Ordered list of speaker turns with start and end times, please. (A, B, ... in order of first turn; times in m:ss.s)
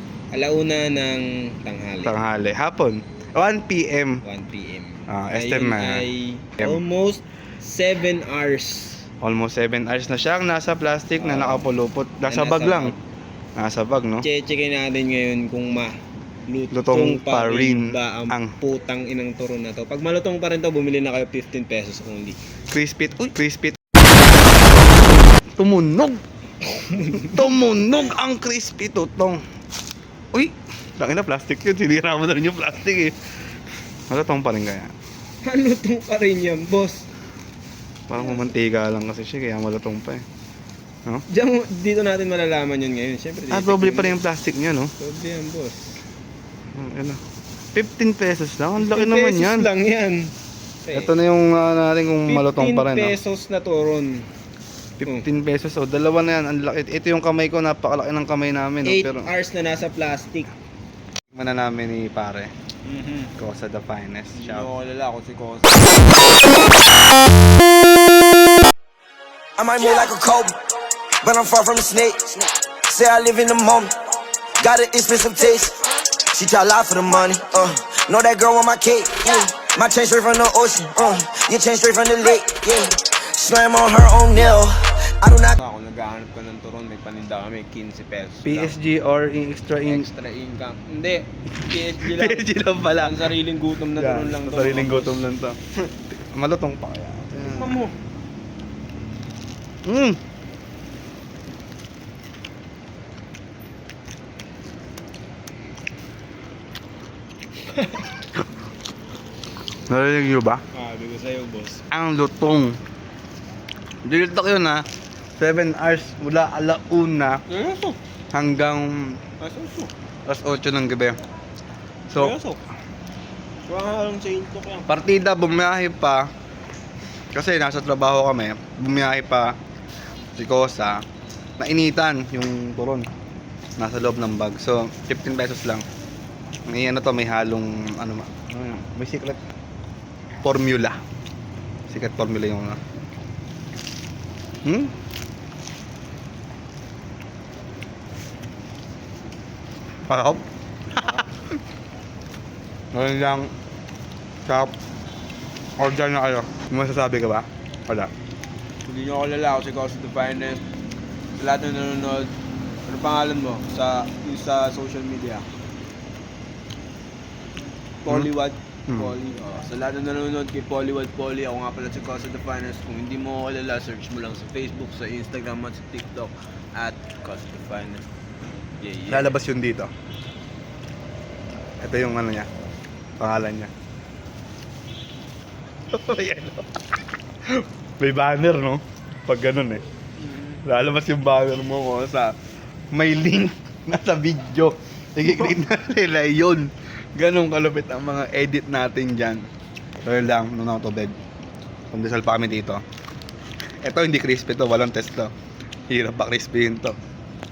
0:00.3-0:02.2 A
0:02.0-0:04.2 B
0:04.2-0:09.1 A
0:05.1-0:06.1 B
0:09.2-0:13.0 B
0:11.2-0:11.7 A
0:12.2-0:13.0 A
0:13.6-0:14.3 B
0:14.2-0:22.4 A
0:16.7-0:18.6 B
0:22.7-0:24.0 B
0:25.6-0:26.2 B
0:26.6-0:27.5 A
0:27.0-0:29.4 B
0:30.3-0:33.2 B
0:34.1-0:34.9 B
0:35.4-0:37.1 A
0:38.1-0:40.2 B
0:38.1-0:38.5 A
0:41.3-0:44.2 A
0:43.5-0:44.9 B
0:45.0-0:46.0 A
0:46.7-0:47.2 B
0:47.7-0:49.7 B
0:48.8-0:50.3 A
0:50.8-0:51.1 A
0:50.9-0:53.2 B
0:52.3-0:54.3 A
0:55.0-0:59.3 B
0:58.8-1:00.5 A
1:01.3-1:02.5 B
1:02.8-1:03.3 A
1:03.4-1:04.7 B
1:04.3-1:06.3 A
1:09.6-1:10.6 C
1:11.2-1:13.9 C
1:14.6-1:25.6 C
1:25.6-1:28.8 A
1:28.4-1:30.1 B
1:29.8-1:35.3 A
1:31.7-1:33.3 B
1:34.0-1:35.6 B
1:36.1-1:37.8 B
1:37.5-1:37.9 A
1:39.8-1:40.2 B
1:49.9-1:50.6 B
1:50.7-1:51.8 A
1:51.9-1:52.8 B
1:54.0-1:54.8 B
1:55.4-1:57.4 B
1:57.5-1:58.0 A
1:58.3-1:59.2 B
1:59.4-1:59.9 A
2:00.3-2:01.2 B
2:02.1-2:02.4 B
2:02.1-2:02.6 A
2:03.7-2:04.9 A
2:04.9-2:06.3 B
2:07.3-2:09.6 B
2:10.4-2:11.0 B
2:11.6-2:13.1 B
2:13.8-2:15.9 B
2:16.7-2:19.4 B
2:20.4-2:21.0 B
2:21.9-2:22.8 B
2:24.6-2:24.9 B
2:30.1-2:31.4 B
2:32.9-2:33.5 B
2:34.5-2:34.8 B
2:35.8-2:38.1 B
2:38.9-2:40.6 A
2:41.4-2:42.3 A
2:42.8-2:45.5 A
2:48.0-2:58.1 A
2:48.9-2:49.1 B
2:58.8-2:59.4 A
2:59.1-2:59.9 B
3:01.8-3:02.5 B
3:03.2-3:03.7 B
3:05.9-3:06.8 B
3:07.5-3:09.8 B
3:10.2-3:10.6 A
3:10.6-3:12.4 B
3:12.9-3:19.5 B
3:20.0-3:21.2 B
3:21.9-3:22.8 B
3:23.8-3:25.3 B
3:25.9-3:27.0 B